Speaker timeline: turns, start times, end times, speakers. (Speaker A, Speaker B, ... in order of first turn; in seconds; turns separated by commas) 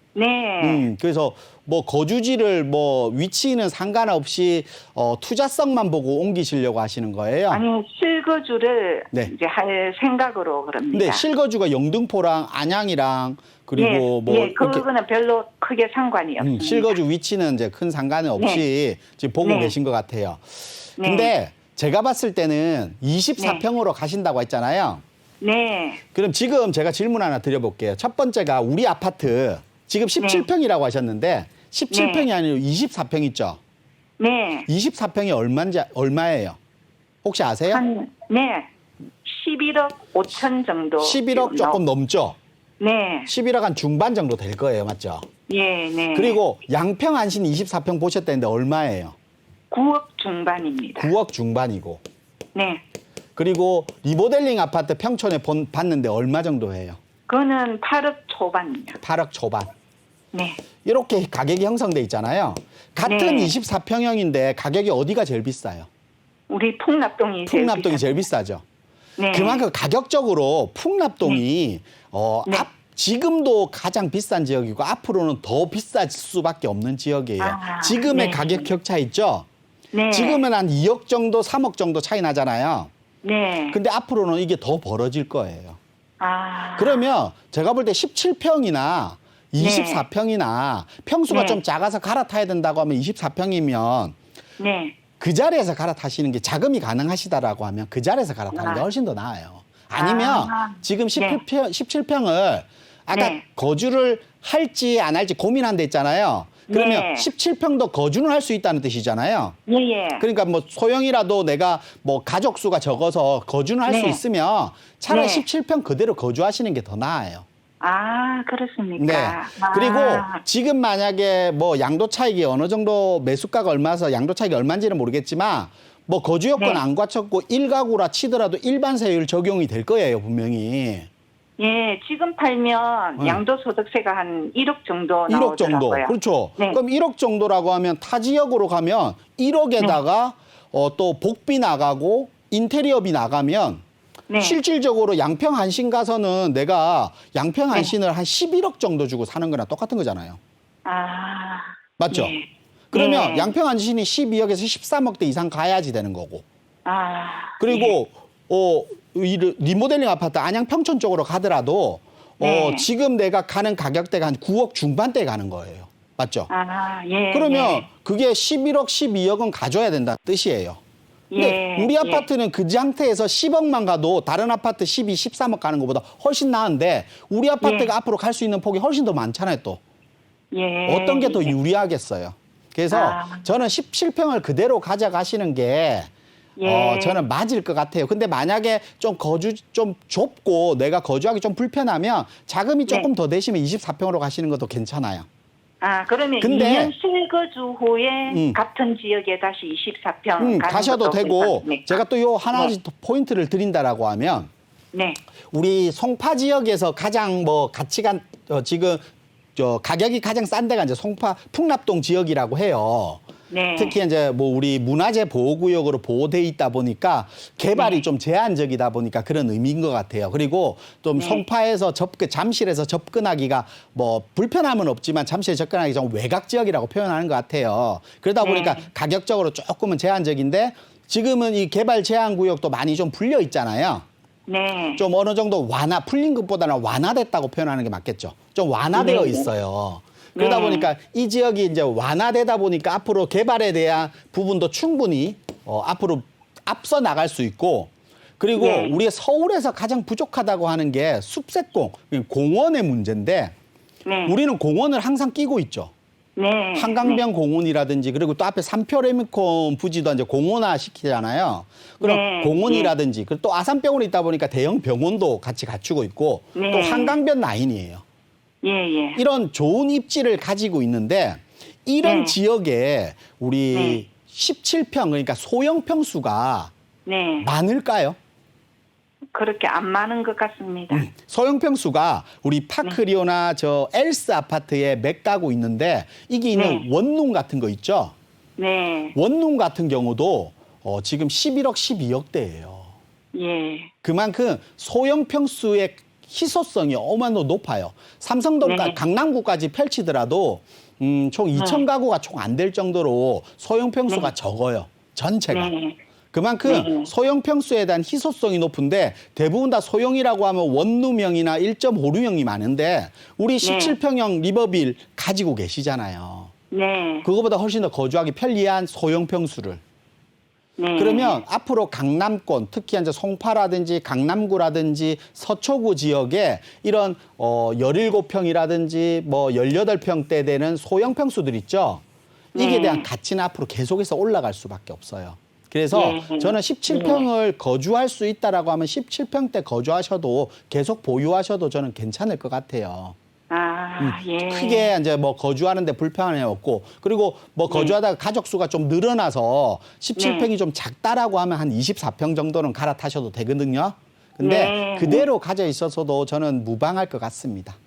Speaker A: 0.1-0.9, Speaker B: 0.6-7.6, Speaker A: 7.5-11.2, Speaker B: 10.9-14.8, Speaker A: 13.8-16.9, Speaker B: 16.4-25.0, Speaker A: 18.4-18.6, Speaker A: 19.4-19.8, Speaker A: 21.0-21.3, Speaker A: 23.4-23.6, Speaker A: 25.4-26.0, Speaker B: 26.1-33.6, Speaker A: 30.2-30.5, Speaker A: 31.9-32.3, Speaker A: 34.2-34.7, Speaker B: 34.7-36.6, Speaker B: 37.2-37.8, Speaker A: 37.7-38.7, Speaker A: 39.2-41.8, Speaker B: 41.0-42.4, Speaker A: 42.8-43.3, Speaker B: 43.3-45.3, Speaker A: 45.5-46.4, Speaker B: 46.1-49.1, Speaker A: 49.7-51.1, Speaker B: 51.0-52.0, Speaker A: 52.5-52.8, Speaker B: 53.4-57.0, Speaker A: 57.3-59.0, Speaker B: 59.0-59.7, Speaker A: 60.3-60.6, Speaker B: 60.9-65.9, Speaker A: 63.0-63.5, Speaker A: 66.5-68.2, Speaker B: 67.5-68.6, Speaker A: 69.2-69.6, Speaker B: 69.3-79.5, Speaker A: 77.4-78.7, Speaker A: 79.9-80.5, Speaker B: 80.1-82.9, Speaker A: 83.2-83.8, Speaker B: 83.7-85.8, Speaker A: 86.2-87.1, Speaker B: 86.8-94.2, Speaker A: 89.6-90.1, Speaker A: 91.3-91.6, Speaker A: 94.6-95.0, Speaker B: 95.2-109.6, Speaker A: 98.5-98.9, Speaker A: 99.9-101.4, Speaker A: 103.1-103.4, Speaker A: 106.7-107.3, Speaker A: 109.7-110.2, Speaker B: 110.2-117.5, Speaker A: 113.8-114.2, Speaker A: 115.1-115.5, Speaker A: 117.8-120.4, Speaker B: 119.0-131.1, Speaker A: 126.6-126.8, Speaker A: 131.6-136.8, Speaker B: 135.3-143.8, Speaker A: 144.3-144.6, Speaker B: 144.4-150.4, Speaker A: 150.8-153.5, Speaker B: 152.0-152.4, Speaker B: 152.9-156.4, Speaker A: 156.8-158.0, Speaker B: 157.6-166.5, Speaker A: 162.4-162.9, Speaker A: 166.5-167.9, Speaker B: 167.3-170.8, Speaker A: 171.3-172.3, Speaker B: 171.4-179.8, Speaker A: 177.6-177.9, Speaker A: 180.5-181.5, Speaker B: 180.9-186.1, Speaker A: 182.9-183.5, Speaker A: 186.6-187.3, Speaker B: 186.6-195.3, Speaker A: 195.8-202.0, Speaker B: 196.4-196.9, Speaker B: 198.3-198.6, Speaker B: 200.4-204.5, Speaker A: 204.9-205.2, Speaker B: 205.5-209.1, Speaker B: 209.6-213.2, Speaker A: 213.5-214.0, Speaker B: 213.8-234.1, Speaker A: 217.8-218.1, Speaker A: 221.2-221.4, Speaker A: 228.4-228.9, Speaker A: 234.5-235.0, Speaker B: 235.0-253.5, Speaker A: 238.9-239.5, Speaker A: 240.4-240.9, Speaker A: 248.6-249.0, Speaker A: 254.1-254.3, Speaker B: 254.3-255.9, Speaker A: 256.4-257.2, Speaker B: 256.8-268.0, Speaker A: 262.0-262.9, Speaker A: 266.6-267.2, Speaker A: 268.6-269.2, Speaker B: 269.2-276.7, Speaker A: 272.0-272.4, Speaker A: 273.7-274.0, Speaker A: 277.1-277.5, Speaker B: 277.4-278.2, Speaker A: 279.3-281.1, Speaker B: 280.9-288.1, Speaker A: 286.5-286.9, Speaker A: 288.6-289.2, Speaker B: 289.1-292.9, Speaker A: 293.3-293.9, Speaker B: 294.0-305.7, Speaker A: 298.6-299.0, Speaker A: 301.5-301.9, Speaker A: 304.1-304.3, Speaker A: 305.5-306.0, Speaker B: 306.3-316.5, Speaker A: 306.6-307.1, Speaker A: 313.6-314.0, Speaker A: 316.7-317.3, Speaker B: 317.2-319.8, Speaker A: 320.8-321.4, Speaker B: 321.0-332.0, Speaker A: 332.6-333.1, Speaker B: 332.6-343.2, Speaker A: 335.9-337.3, Speaker A: 343.5-344.9, Speaker B: 344.0-357.8, Speaker A: 347.7-348.0, Speaker A: 350.2-350.5, Speaker A: 354.4-355.3